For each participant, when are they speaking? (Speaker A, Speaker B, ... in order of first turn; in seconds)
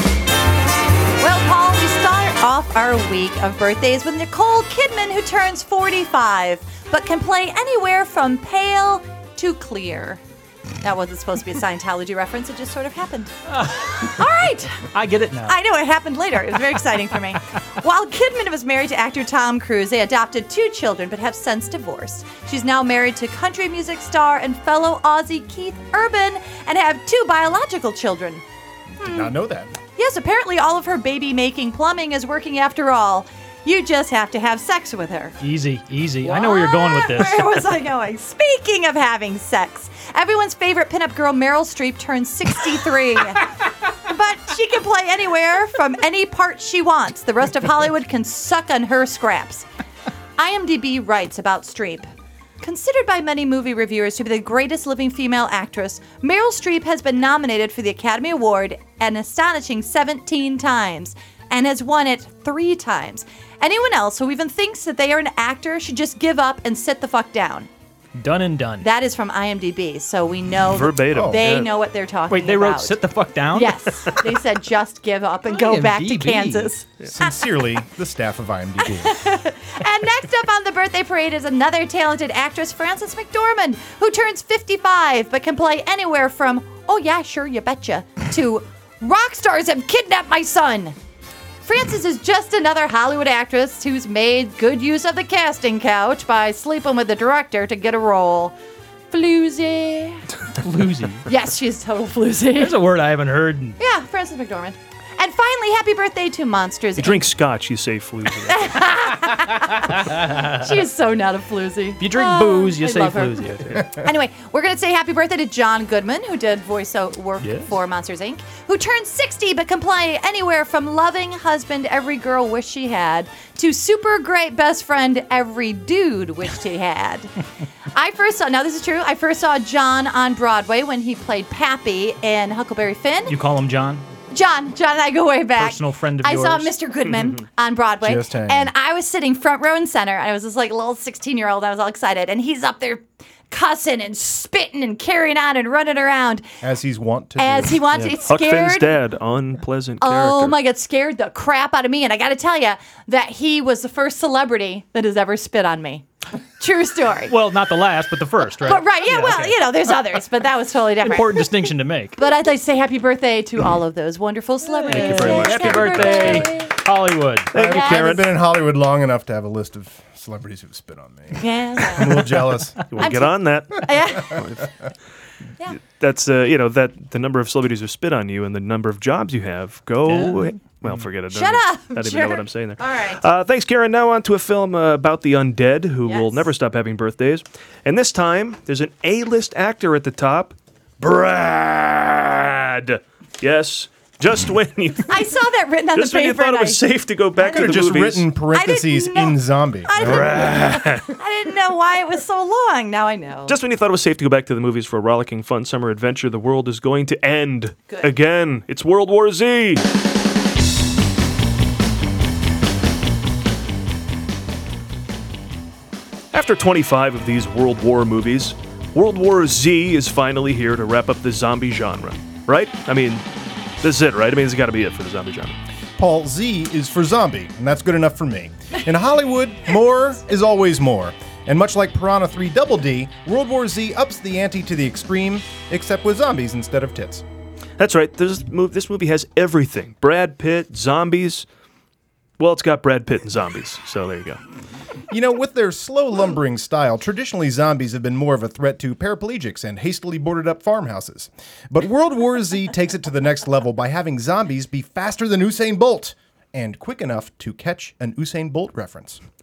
Speaker A: 1.2-10.2, 10.8-13.3, 14.0-14.9, 15.4-28.4, 29.0-29.3, 29.9-35.4, 36.2-49.7, 50.4-52.1, 52.6-67.7, 68.8-73.0, 73.5-77.4, 78.8-91.0, 91.6-98.5, 99.1-100.2, 101.3-102.8, 103.8-107.3, 108.4-127.3, 127.9-133.4, 134.3-146.5, 147.4-148.9, 150.0-156.1, 156.6-157.3, 158.6-161.5, 162.2-166.7, 167.6-168.2, 171.4-174.4, 181.3-183.2, 186.0-186.5, 195.1-196.8, 197.4-197.8, 198.5-203.6
Speaker B: 13.5-14.2, 14.9-15.6, 35.4-37.5, 68.2-68.9, 72.3-74.2, 75.5-76.7, 100.6-101.3, 102.5-103.8, 110.1-110.6, 112.0-113.8, 117.4-117.7, 133.3-134.1, 135.6-136.7, 157.3-159.6, 161.0-162.2, 164.7-167.5, 180.1-180.6
Speaker C: 29.0-29.7, 71.1-71.5, 77.1-79.2, 138.0-138.7, 146.6-147.9, 167.5-172.8, 197.4-200.4, 226.0-237.2, 245.1-259.2
Speaker D: 70.7-71.7, 107.0-108.7, 137.1-137.4, 147.9-150.5, 164.9-166.6, 167.5-168.2, 172.9-174.7, 175.8-195.4, 195.9-198.3, 200.0-201.2, 203.5-209.8, 216.3-223.2, 223.8-225.6, 237.8-241.4, 242.4-244.4